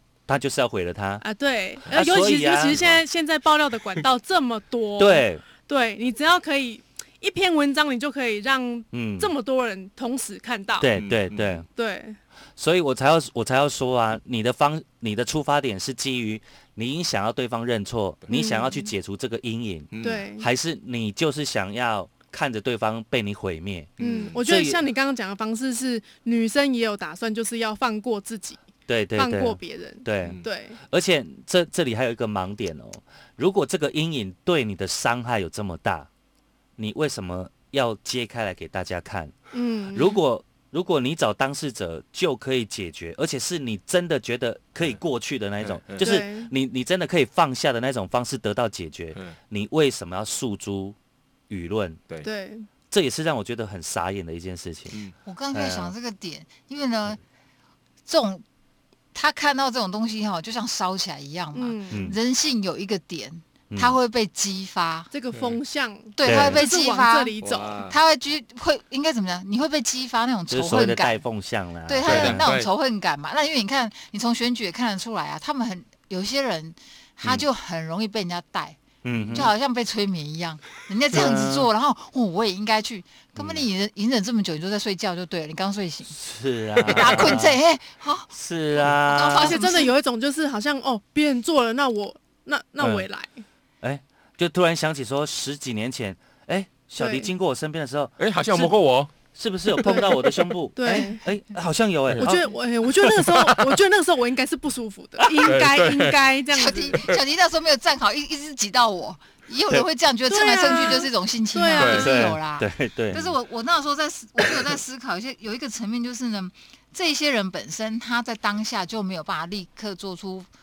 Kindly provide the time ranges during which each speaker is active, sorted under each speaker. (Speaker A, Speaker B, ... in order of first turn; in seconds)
Speaker A: 0.3-1.2, 1.9-2.8, 5.0-5.5, 8.9-9.3, 10.8-11.7, 12.6-24.8, 28.9-36.1, 36.8-39.3, 39.9-51.0, 51.5-52.0, 52.9-55.0, 55.5-55.9, 61.9-62.2, 63.7-64.0, 66.2-66.6, 70.5-72.5, 79.0-79.5, 81.1-81.7, 86.1-87.6, 88.3-89.6, 92.8-93.1, 93.8-98.7, 99.3-102.5, 105.2-105.6, 111.9-113.3
Speaker B: 1.2-10.9, 11.7-12.2, 18.3-18.9, 20.0-20.5, 24.0-28.6, 29.2-30.8, 39.5-40.2, 46.0-46.5, 52.2-52.7, 61.5-62.1, 65.1-67.8, 89.3-93.4, 97.0-97.3, 99.8-100.2, 100.8-101.2, 102.2-107.0, 110.3-112.3
Speaker C: 2.7-3.0, 11.0-11.6, 19.9-20.2, 24.0-24.4, 45.6-46.1, 65.3-65.6, 67.4-68.0, 72.0-72.7, 79.1-79.5, 86.8-87.4, 98.2-99.1, 99.7-100.5, 102.1-103.8, 105.4-106.2, 106.9-107.2, 111.8-112.1
Speaker D: 55.2-57.2, 58.1-58.4, 59.1-65.1, 66.2-71.2, 71.9-78.8, 79.3-86.2, 86.8-88.3, 88.8-89.9, 106.5-120.5